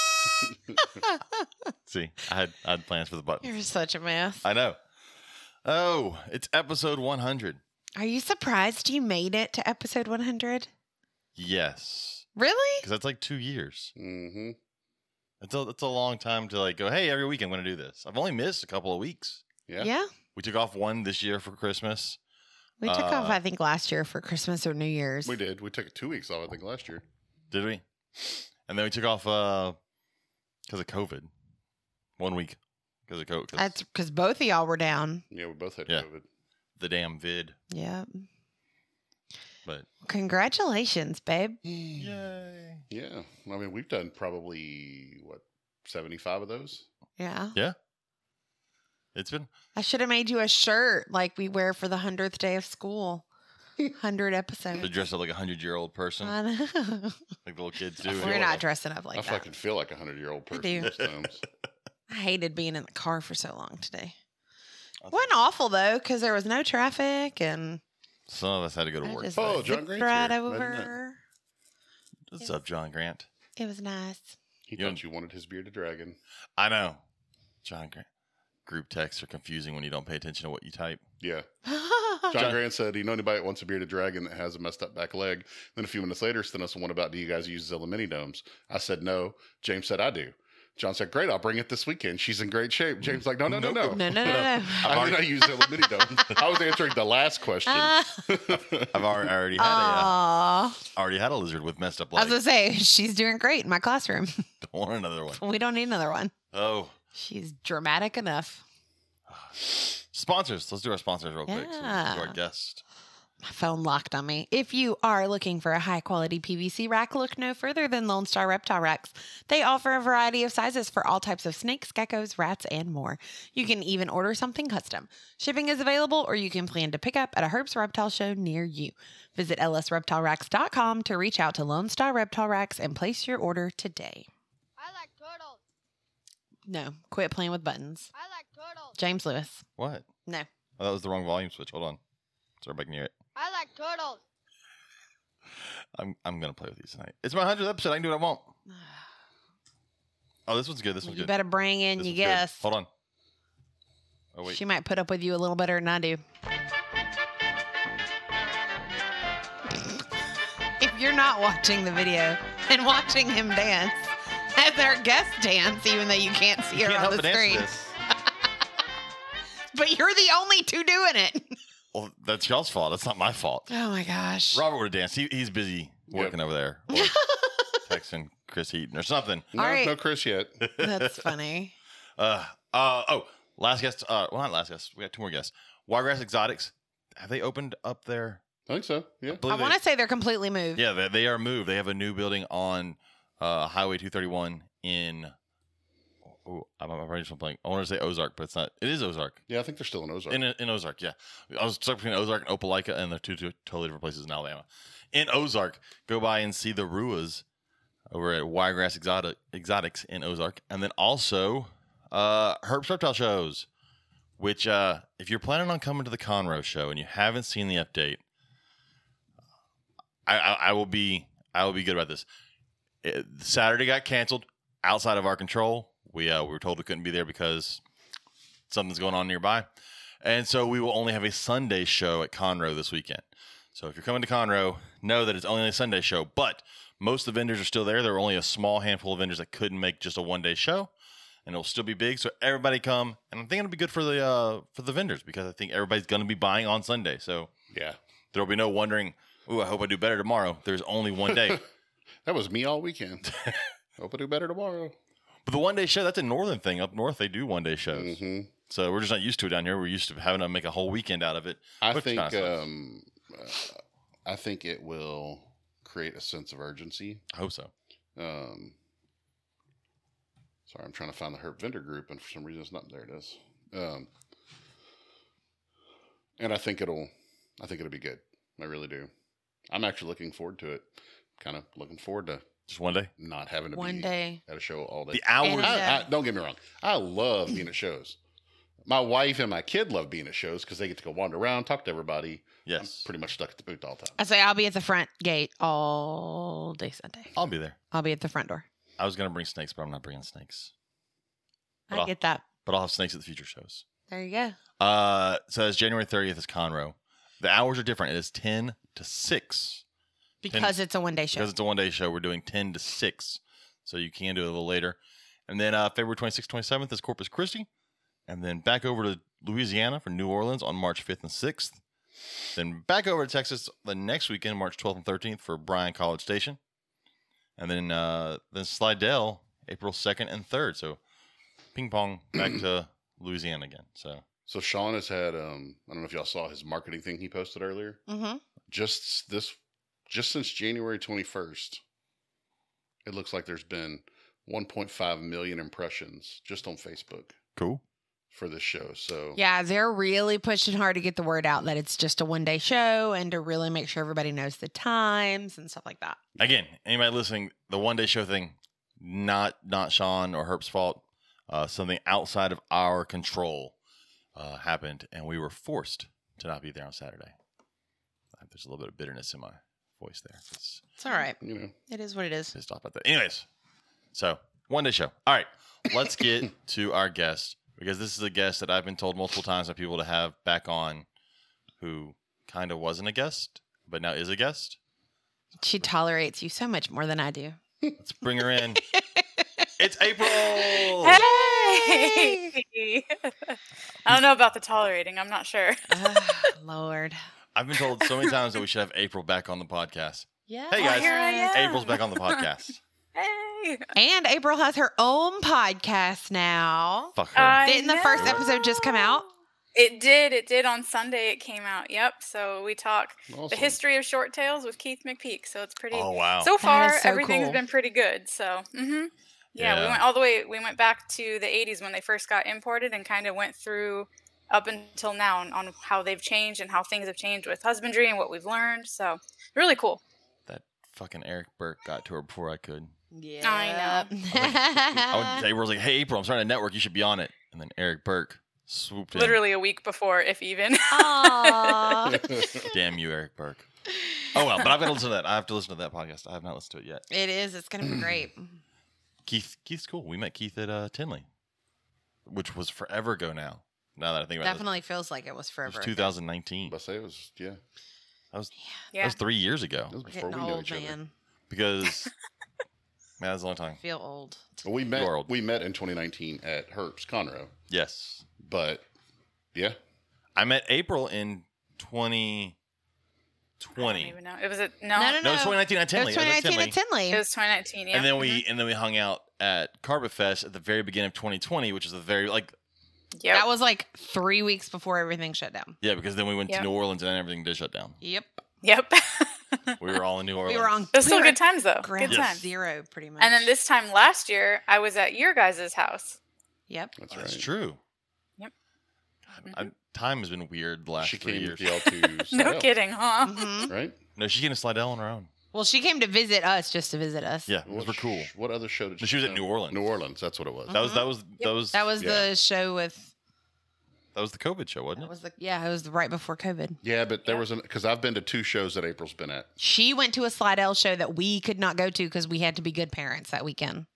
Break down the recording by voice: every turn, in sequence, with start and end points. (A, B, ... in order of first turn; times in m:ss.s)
0:00.8-0:01.4 A
0:01.9-0:03.5 B
0:03.4-0:04.4 A
0:04.4-0:04.8 B
0:05.6-0:07.6 B
0:08.0-0:10.7 A
0:11.4-0:12.3 B
0:12.4-0:12.8 A
0:12.8-0:13.9 B
0:14.0-0:14.6 C
0:15.4-0:19.4 B
0:19.8-0:20.1 A
0:20.4-0:22.2 B
0:22.8-0:25.3 A
0:22.8-0:23.4 B
0:25.2-0:27.0 C
0:27.5-0:27.8 B
0:28.7-0:29.8 B
0:30.7-0:31.3 B
0:32.2-0:33.8 B
0:33.6-0:35.2 A
0:35.3-0:36.2 C
0:36.8-0:37.6 B
0:37.7-0:38.2 A
0:40.0-0:41.6 A
0:41.7-0:42.0 C
0:42.0-0:42.8 B
0:42.9-0:46.8 C
0:47.2-0:47.6 A
0:49.1-0:49.5 B
0:49.7-0:53.2 A
0:54.0-0:54.9 A
0:54.8-0:56.4 B
0:56.2-0:57.2 A
0:57.4-0:58.6 B
0:58.0-0:59.4 A
0:59.1-1:01.4 C
1:00.5-1:00.9 A
1:02.1-1:04.2 A
1:05.0-1:05.3 B
1:05.1-1:07.8 A
1:08.3-1:09.7 B
1:09.0-1:11.2 A
1:09.4-1:10.9 C
1:12.3-1:13.3 B
1:13.6-1:14.3 A
1:14.7-1:16.2 C
1:14.8-1:15.0 B
1:16.6-1:17.0 B
1:17.6-1:18.1 B
1:18.7-1:21.0 B
1:21.2-1:21.5 C
1:21.6-1:22.3 A
1:22.3-1:39.3 C
1:22.3-1:22.6 B
1:33.0-1:35.4 B
1:33.8-1:36.3 A
1:37.7-1:38.2 A
1:38.9-1:40.2 B
1:39.6-1:40.8 A
1:40.9-1:42.4 B
1:42.1-1:44.4 A
1:44.6-1:45.4 B
1:45.3-1:46.3 A
1:46.5-1:46.9 B
1:47.1-1:48.6 A
1:49.3-1:52.8 B
1:51.5-1:52.4 A
1:53.4-2:14.3 A
2:14.8-2:15.6 D
2:16.7-2:18.1 A
2:18.1-2:19.0 D
2:19.0-2:19.6 A
2:19.8-2:20.1 B
2:20.8-2:22.0 B
2:22.6-2:23.1 B
2:23.3-2:24.2 D
2:26.0-2:28.5 B
2:28.7-2:29.0 A
2:30.5-2:31.4 B
2:31.0-2:32.6 A
2:32.0-2:32.9 B
2:34.3-2:34.6 B
2:34.4-2:36.2 A
2:39.7-2:40.0 A
2:40.8-2:47.7 A
2:46.7-2:47.9 B
2:49.7-2:51.6 A
2:51.9-2:53.8 B
2:53.7-2:54.6 A
2:54.5-2:57.2 B
2:56.9-2:57.8 A
2:57.8-2:59.5 B
2:59.5-3:00.6 C
2:59.6-2:59.9 A
3:00.6-3:01.3 B
3:00.7-3:01.8 A
3:02.2-3:08.4 B
3:08.7-3:09.4 C
3:09.3-3:09.8 B
3:09.5-3:10.8 A
3:10.8-3:15.3 B
3:16.3-3:19.4 B
3:19.5-3:20.4 C
3:20.3-3:27.4 B
3:28.1-3:33.7 B
3:34.4-3:38.2 B
3:40.2-3:42.2 B
3:43.0-3:47.8 B
3:48.7-3:49.7 B
3:50.2-4:00.9 B
4:01.4-4:07.5 B
4:07.7-4:08.0 C
4:08.3-4:11.6 B
4:12.2-4:13.3 C
4:13.3-4:13.6 B
4:14.0-4:14.9 C
4:15.4-4:22.6 B
4:17.9-4:18.5 C
4:21.8-4:27.2 C
4:27.3-4:27.7 B
4:28.2-4:28.8 C
4:30.7-4:34.1 C
4:36.4-4:39.1 C
4:39.7-4:42.4 C
4:42.7-4:43.1 B
4:43.2-4:48.2 C
4:43.7-4:44.4 A
4:45.1-4:46.0 B
4:45.4-4:46.1 A
4:48.9-4:54.2 C
4:52.6-4:53.1 B
4:54.2-4:57.3 A
4:57.4-4:57.8 B
4:57.9-4:58.6 A
4:59.0-5:00.7 B
5:01.9-5:02.4 A
5:01.9-5:03.8 B
5:04.1-5:04.6 A
5:04.8-5:09.8 B
5:10.4-5:11.5 A
5:10.5-5:10.8 B
5:11.3-5:17.7 B
5:18.3-5:21.8 B
5:22.6-5:26.6 B
5:27.6-5:31.0 B
5:31.8-5:34.2 B
5:34.5-5:38.0 C
5:38.1-5:38.4 A
5:38.7-5:39.6 C
5:40.1-5:41.8 C
5:43.0-5:47.4 C
5:47.6-5:47.8 B
5:48.3-5:49.4 C
5:49.3-5:56.2 A
5:56.4-6:03.8 B
6:04.3-6:07.3 B
6:08.3-6:10.8 B
6:11.0-6:12.6 A
6:11.4-6:11.7 C
6:12.6-6:13.5 B
6:14.1-6:21.1 B
6:21.8-6:24.8 B
6:25.6-6:27.6 A
6:28.0-6:28.8 B
6:28.9-6:29.7 A
6:29.8-6:31.2 B
6:31.0-6:32.5 A
6:31.0-6:36.2 E
6:35.9-6:37.2 A
6:37.6-6:42.8 B
6:40.5-6:41.6 A
6:40.8-6:42.4 E
6:43.1-6:43.9 E
6:43.9-6:49.3 A
6:47.2-6:48.4 B
6:47.4-7:10.0 E
6:53.3-6:53.8 C
6:55.9-6:56.5 B
6:56.6-6:57.6 A
6:59.6-7:00.0 B
7:10.5-7:12.9 B
7:13.1-7:15.4 A
7:13.4-7:14.1 E
7:14.3-7:19.4 B
7:19.1-7:22.1 E
7:20.9-7:22.6 A
7:22.1-7:22.6 C
7:22.7-7:23.7 B
7:24.3-7:27.0 B
7:27.1-7:28.6 A
7:29.2-7:31.3 B
7:32.2-7:34.7 B
7:34.4-7:36.0 A
7:35.7-7:36.8 B
7:36.7-7:37.6 C
7:38.3-7:40.0 B
7:38.9-7:39.2 E
7:39.9-7:41.0 C
7:40.1-7:41.1 A
7:41.5-7:42.1 B
7:43.2-7:43.8 B
7:43.8-7:44.6 A
7:44.6-7:47.5 C
7:44.9-7:45.3 B
7:47.7-7:48.2 B
7:48.4-7:48.8 C
7:50.4-7:52.6 B
7:53.6-7:54.2 B
7:53.8-7:55.2 E
7:54.9-7:57.2 A
7:55.2-7:56.8 B
7:57.1-7:58.4 E
7:57.9-8:02.6 B
8:03.2-8:03.4 E
8:03.3-8:05.8 A
8:05.8-8:08.0 B
8:08.0-8:08.4 A
8:08.6-8:09.8 E
8:09.8-8:10.8 B
8:10.5-8:13.5 A
8:10.9-8:12.4 E
8:12.1-8:12.4 B
8:13.2-8:16.2 E
8:17.0-8:17.5 C
8:17.1-8:17.8 B
8:19.3-8:21.8 B
8:21.0-8:22.7 C
8:21.8-8:23.7 E
8:23.2-8:23.7 A
8:23.7-8:24.0 C
8:24.2-8:25.3 B
8:25.5-8:27.5 A
8:27.5-8:28.3 B
8:27.6-8:30.9 C
8:29.0-8:29.8 B
8:30.7-8:31.1 A
8:30.7-8:32.2 B
8:31.7-8:33.1 A
8:32.0-8:32.3 C
8:34.1-8:35.1 B
8:35.0-8:36.8 A
8:36.8-8:39.5 C
8:39.6-8:43.9 A